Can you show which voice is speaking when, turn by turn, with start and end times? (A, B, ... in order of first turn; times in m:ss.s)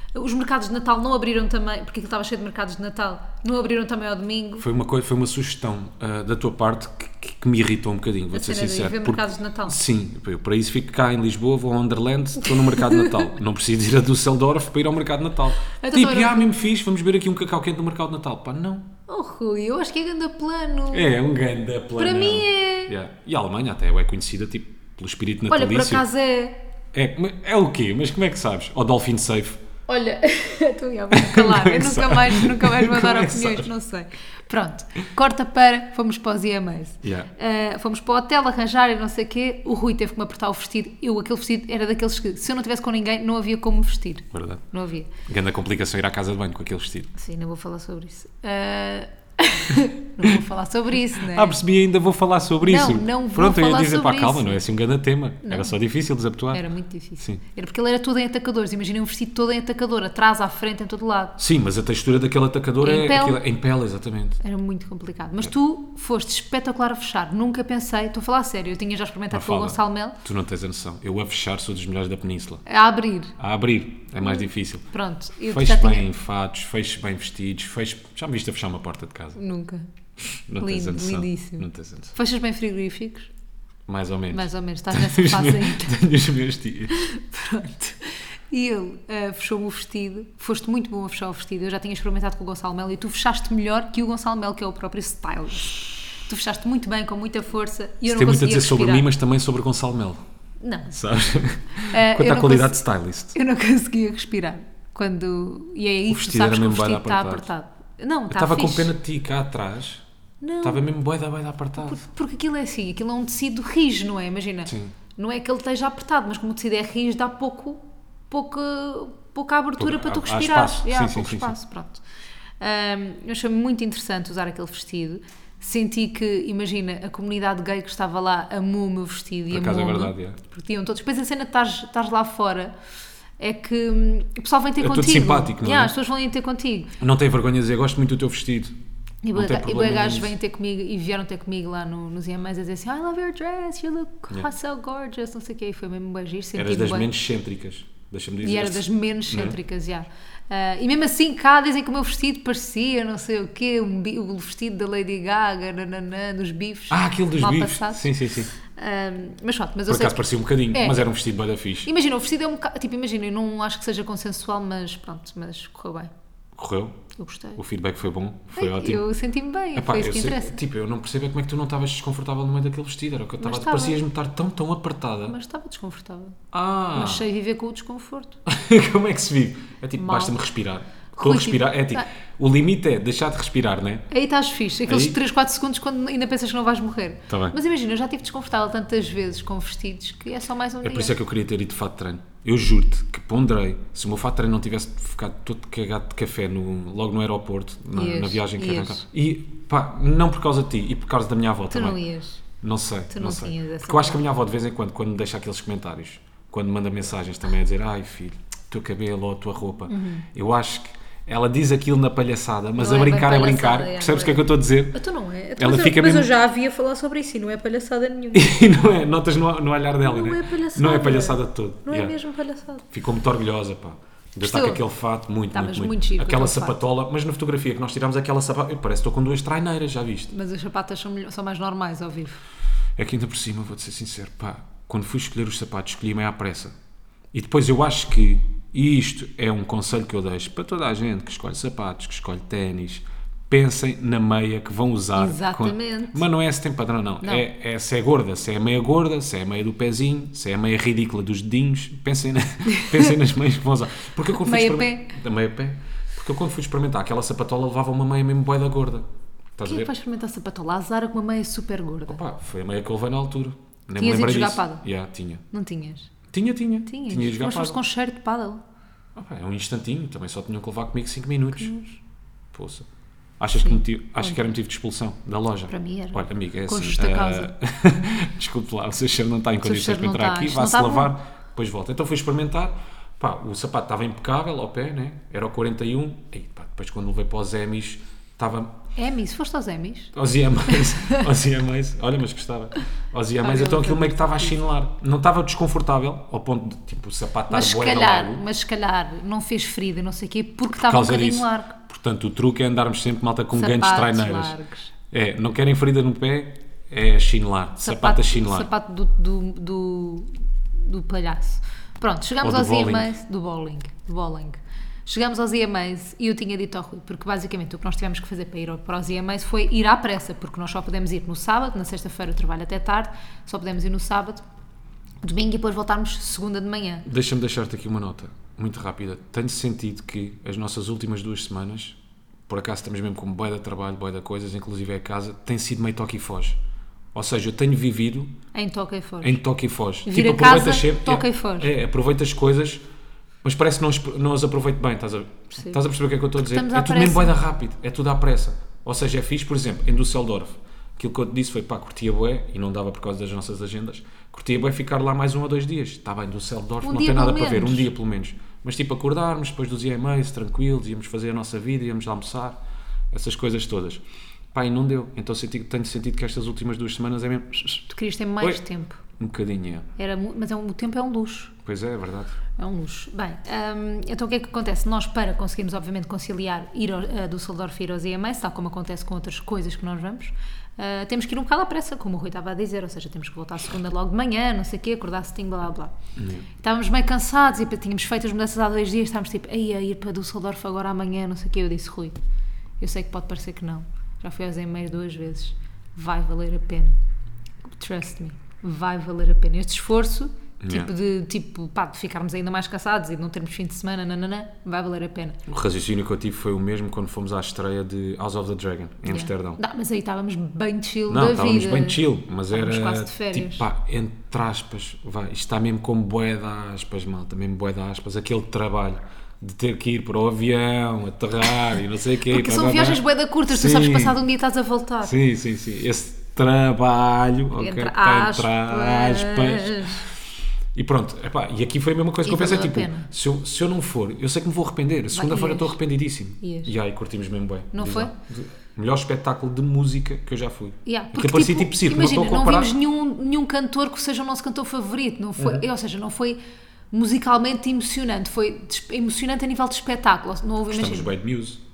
0:00.1-0:04.7 A
0:04.6-0:18.9 B
0:08.3-0:09.8 A
0:12.4-0:13.3 A
0:15.8-0:16.5 A
0:19.1-0:21.1 A
0:20.9-0:26.0 B
0:22.0-0:22.9 A
0:25.5-0:26.6 A
0:26.9-0:29.6 B
0:29.9-0:45.1 A
0:31.1-0:33.7 B
0:37.0-0:37.3 B
0:44.3-0:44.6 B
0:45.2-0:47.1 B
0:47.1-0:51.6 A
0:51.1-0:56.6 B
0:52.6-0:54.6 A
0:55.4-0:55.7 A
0:56.5-1:01.4 A
1:01.4-1:04.4 B
1:02.8-1:03.4 A
1:04.4-1:10.2 A
1:09.3-1:12.6 B
1:12.6-1:13.4 A
1:13.4-1:14.9 B
1:14.2-1:16.1 A
1:15.4-1:19.4 B
1:19.4-1:19.8 A
1:20.2-1:22.1 B
1:20.6-1:23.3 A
1:23.9-1:26.9 B
1:24.3-1:26.0 A
1:26.9-1:39.1 A
1:38.0-1:40.2 B
1:40.6-1:40.9 A
1:40.9-1:43.4 B
1:41.8-1:48.9 A
1:46.1-1:47.5 B
1:48.3-1:50.0 B
1:50.4-1:50.8 A
1:50.6-1:52.0 B
1:51.8-2:02.0 A
1:54.7-1:54.9 B
1:59.8-2:01.5 B
2:02.6-2:12.7 A
2:09.5-2:10.4 B
2:13.4-2:16.9 A
2:14.8-2:15.9 B
2:17.0-2:18.7 B
2:19.2-2:27.1 A
2:19.3-2:20.3 B
2:26.6-2:29.6 B
2:28.4-2:41.1 A
2:36.9-2:38.5 B
2:39.9-2:41.9 B
2:41.8-2:46.1 A
2:46.5-2:47.0 B
2:47.2-2:47.6 A
2:47.6-2:49.0 B
2:48.6-2:50.6 A
2:49.7-2:55.4 B
2:53.4-2:54.0 A
2:55.3-2:56.4 A
2:56.5-2:57.3 B
2:56.9-2:58.4 A
2:58.4-3:04.0 B
3:00.0-3:00.4 A
3:01.1-3:02.1 A
3:04.1-3:11.1 A
3:04.8-3:05.2 B
3:07.3-3:07.6 B
3:10.8-3:22.0 B
3:17.9-3:19.0 A
3:21.7-3:22.4 A
3:22.6-3:35.0 B
3:23.1-3:24.2 A
3:29.9-3:30.3 A
3:32.8-3:38.6 A
3:35.6-3:36.3 B
3:38.3-3:42.2 B
3:40.0-3:42.8 A
3:42.9-3:50.3 B
3:44.4-3:44.8 A
3:45.5-3:46.8 A
3:50.3-3:52.4 A
3:53.0-3:56.7 B
3:57.3-4:19.0 B
4:05.2-4:06.2 A
4:12.7-4:13.1 A
4:14.4-4:15.1 A
4:19.6-4:19.9 B
4:19.6-4:22.2 A
4:22.1-4:25.4 B
4:24.0-4:24.8 A
4:25.5-4:26.1 A
4:26.3-4:27.8 B
4:26.9-4:28.6 A
4:29.1-4:31.7 B
4:31.6-4:32.0 A
4:32.5-4:32.9 B
4:33.4-4:48.8 B
4:33.6-4:34.4 A
4:35.7-4:37.5 A
4:39.6-4:41.1 A
4:49.0-4:50.1 A
4:50.1-4:58.4 B
4:50.7-4:51.2 A
4:53.4-4:54.6 A
4:57.5-5:01.7 A
5:00.7-5:04.5 B
5:03.5-5:04.9 A
5:05.1-5:08.7 B
5:07.8-5:24.4 A
5:12.4-5:13.1 B
5:25.2-5:27.0 A
5:27.0-5:32.0 B
5:32.5-5:36.6 B
5:37.1-5:38.4 B
5:38.5-5:39.4 A
5:39.2-5:42.8 B
5:40.0-5:41.7 A
5:43.4-6:02.6 B
5:46.4-5:47.3 A
5:56.8-5:57.9 A
6:03.1-6:07.8 B
6:07.9-6:09.0 A
6:09.2-6:09.9 B
6:10.0-6:11.5 A
6:11.6-6:12.4 B
6:12.6-6:25.9 A
6:26.2-6:26.5 B
6:26.6-6:32.2 A
6:32.8-6:37.0 A
6:37.7-6:45.4 A
6:40.6-6:40.9 B
6:45.5-6:49.6 B
6:49.1-6:53.6 A
6:51.1-7:04.2 B
7:02.3-7:05.1 A
7:05.0-7:10.1 B
7:07.6-7:10.1 A
7:10.7-7:22.7 B
7:12.2-7:13.1 A
7:15.1-7:15.8 A
7:16.4-7:16.7 A
7:17.7-7:18.1 A
7:20.8-7:26.4 A
7:25.4-7:25.6 B
7:26.9-7:31.1 A
7:30.7-7:31.6 B